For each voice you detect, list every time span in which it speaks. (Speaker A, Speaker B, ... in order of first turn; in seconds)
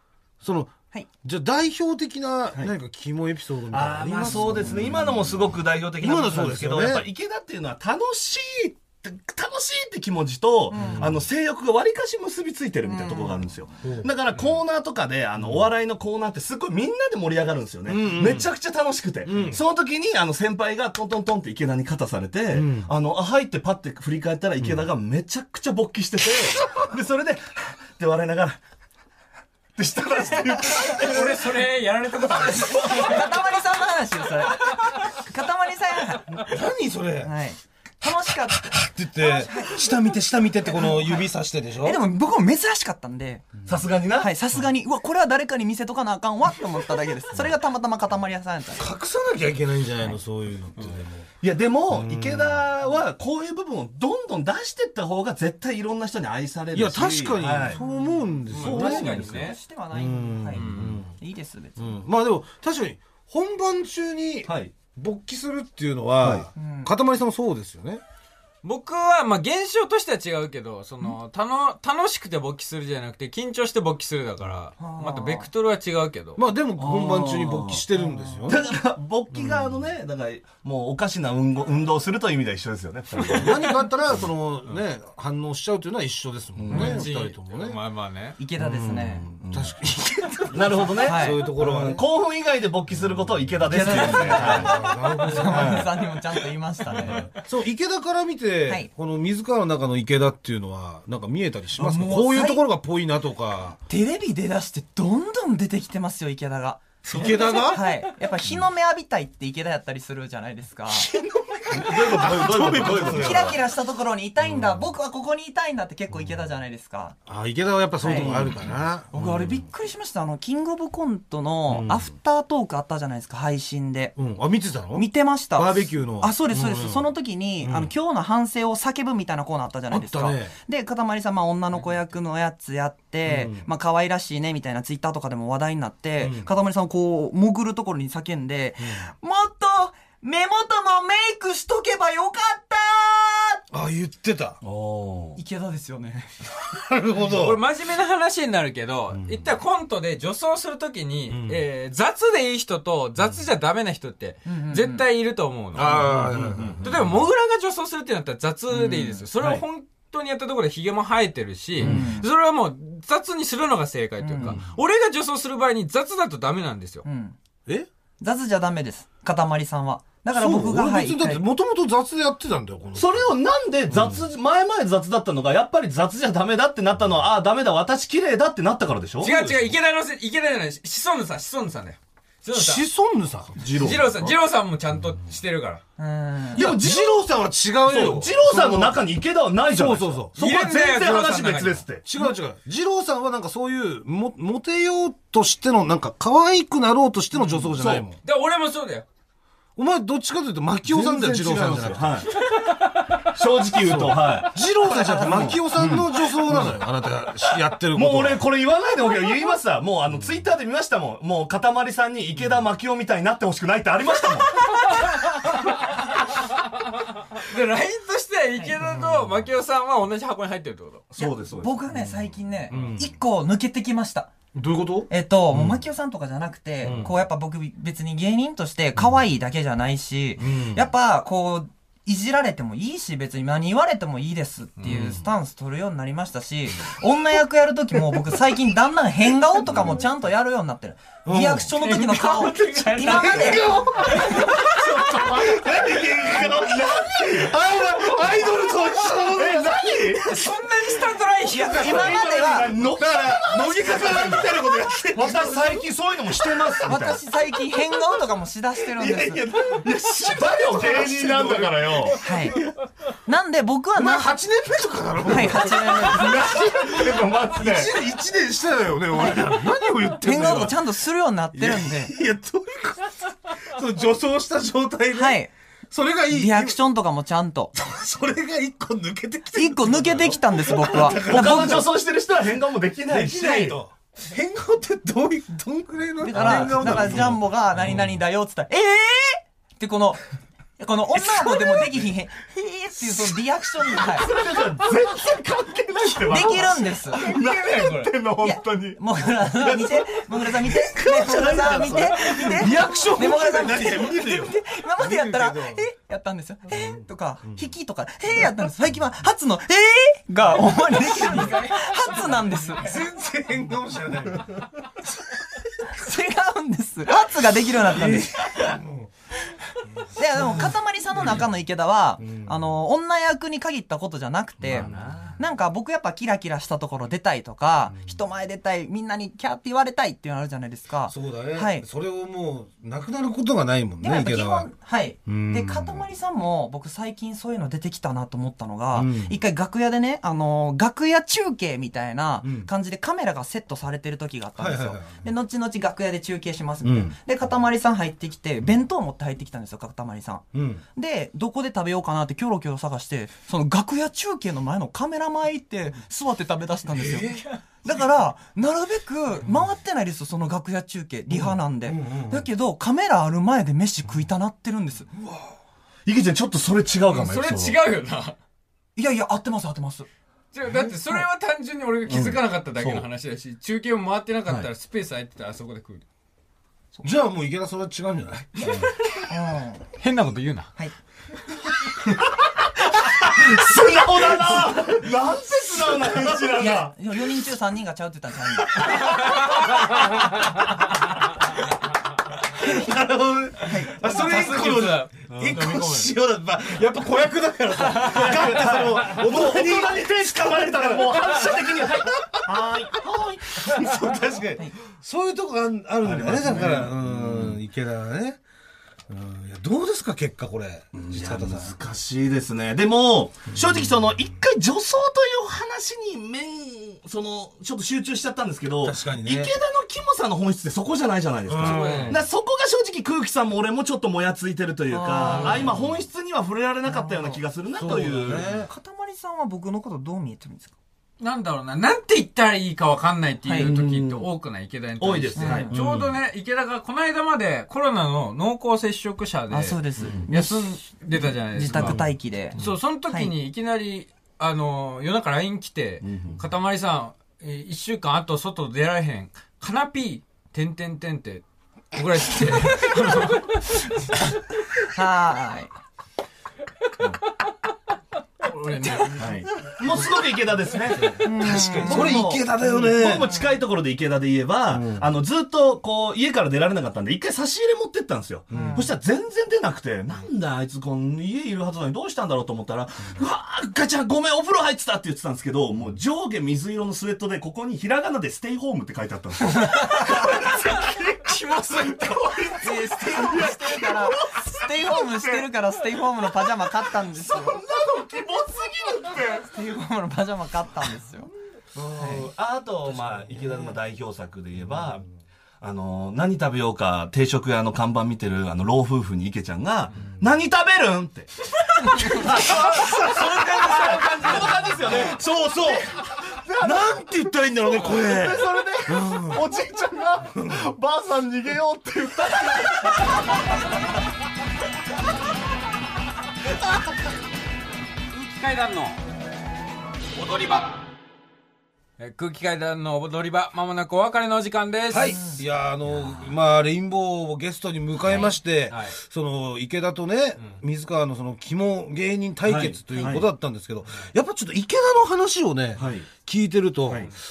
Speaker A: 0.4-5.2, 6.0-7.0, 10.7-11.2, 13.8-14.1, 17.9-18.5, 19.2-19.6, 22.5-22.9, 36.4-37.3, 38.5-42.0, 48.8-51.3, 51.9-52.6, 56.7-59.2, 59.9-61.1, 61.8-68.0, 76.4-78.6, 79.3-79.7, 83.3-87.8, 88.6-92.0, 93.7-95.9, 97.4-103.8, 107.0-107.9, 110.9-113.6, 117.3-119.6, 121.7-122.1, 124.2-127.1, 127.6-127.9, 129.9-130.5, 133.2-133.7, 136.2-136.5, 143.7-144.6, 146.7-147.6, 149.1-149.5, 151.3-151.6, 155.8-156.9, 170.3-173.3, 173.9-174.2, 179.2-179.7, 182.5-183.7, 186.6-189.0, 189.7-190.4, 192.0-198.2, 199.8-202.3, 203.8-208.4, 222.7-223.1, 224.5-225.8, 226.8-227.1, 230.4-230.9, 234.9-235.2, 241.2-241.7, 243.0-250.2, 252.8-255.9, 256.4-256.9, 258.9-262.7, 263.9-270.8, 271.5-275.4, 275.9-276.8, 277.7-281.9, 283.1-288.0, 300.6-305.8, 306.7-307.7, 312.8-314.6, 317.8-319.1, 322.2-322.6, 324.7-325.0, 331.1-334.7, 335.3-336.1, 338.9-339.4, 342.4-342.7, 344.6-345.3, 346.8-347.1, 350.5-350.8, 356.9-357.4, 361.3-362.5, 365.1-365.5, 377.0-378.9, 392.6-402.7, 403.4-408.4, 409.1-411.7, 418.8-419.5, 421.5-422.2, 425.4-425.8, 427.8-428.7, 435.7-436.0, 461.0-463.3, 464.7-465.1, 468.5-468.9, 504.9-505.9, 506.6-509.4, 524.9-537.1
Speaker B: 3.7-28.6, 29.8-31.5, 43.7-44.3, 51.4-57.8, 58.5-59.5, 64.5-64.7, 66.2-66.5, 76.8-77.8, 78.5-83.6, 86.6-87.0, 89.4-89.7, 90.5-94.8, 95.4-96.0, 96.9-97.3, 111.7-113.6, 118.1-118.7, 144.6-145.4, 155.9-157.0, 172.9-179.3, 183.6-184.3, 186.5-187.2, 187.8-192.0, 197.8-198.1, 200.8-202.3, 203.3-206.8, 207.9-214.8, 221.2-221.8, 243.4-248.5, 249.2-250.4, 251.7-257.2, 259.5-262.2, 265.9-268.0, 281.0-283.8, 286.3-287.3, 294.0-302.9, 324.6-325.4, 366.1-367.8, 372.1-373.1, 382.0-387.2, 397.9-404.1, 406.0-407.6, 410.9-428.5, 433.6-434.2, 435.0-436.0, 440.0-440.2, 446.0-446.4, 459.2-485.5, 487.1-489.5, 491.8-495.1, 495.6-501.3, 501.9-513.1, 532.4-533.3, 535.8-536.1
Speaker C: 4.3-4.8, 10.7-11.1, 12.8-13.4, 32.3-36.5, 37.2-39.9, 40.7-41.3, 41.8-43.5, 44.2-48.9, 57.7-62.0, 66.6-66.9, 74.8-75.5, 78.0-78.8, 88.4-89.3, 91.0-91.4, 93.7-97.3, 101.8-102.6, 103.9-111.1, 112.7-117.2, 118.0-118.5, 119.1-124.2, 124.9-143.6, 145.4-146.3, 154.5-155.1, 158.7-159.3, 161.8-162.3, 164.2-164.6, 167.1-167.4, 168.2-171.4, 186.0-186.7, 204.9-205.4, 221.2-224.3, 225.1-245.2, 251.5-252.8, 256.9-259.4, 262.2-262.6, 263.2-264.3, 265.2-266.7, 269.1-269.5, 270.0-272.1, 275.1-275.5, 276.3-277.7, 279.5-281.9, 283.3-283.6, 286.2-290.2, 290.8-294.4, 296.2-297.3, 298.4-312.9, 315.8-318.6, 320.1-331.9, 334.0-365.1, 369.0-370.1, 379.3-379.9, 386.6-389.2, 392.6-392.9, 393.6-393.9, 424.9-425.7, 426.9-430.7, 435.4-435.7, 439.5-442.6, 454.8-455.7, 458.8-459.2, 461.2-463.4, 468.5-468.9, 479.6-480.2, 482.6-487.6, 489.4-491.3, 492.0-492.3
Speaker D: 30.8-33.3, 58.5-59.6, 60.5-61.0, 68.6-76.4, 86.7-88.4, 147.3-156.1, 156.8-167.1, 179.2-182.8, 183.7-185.8, 190.4-191.8, 197.5-199.1, 214.6-216.0, 217.3-221.2, 241.8-244.5, 250.2-252.2, 297.1-298.1, 311.1-311.9, 367.1-368.4, 370.5-376.1, 380.0-380.7, 394.0-396.1, 421.6-422.2, 425.2-425.6, 431.2-454.3, 458.4-459.3, 480.1-482.6, 502.4-505.1, 518.1-519.0, 520.2-520.8, 522.0-525.2, 528.1-529.0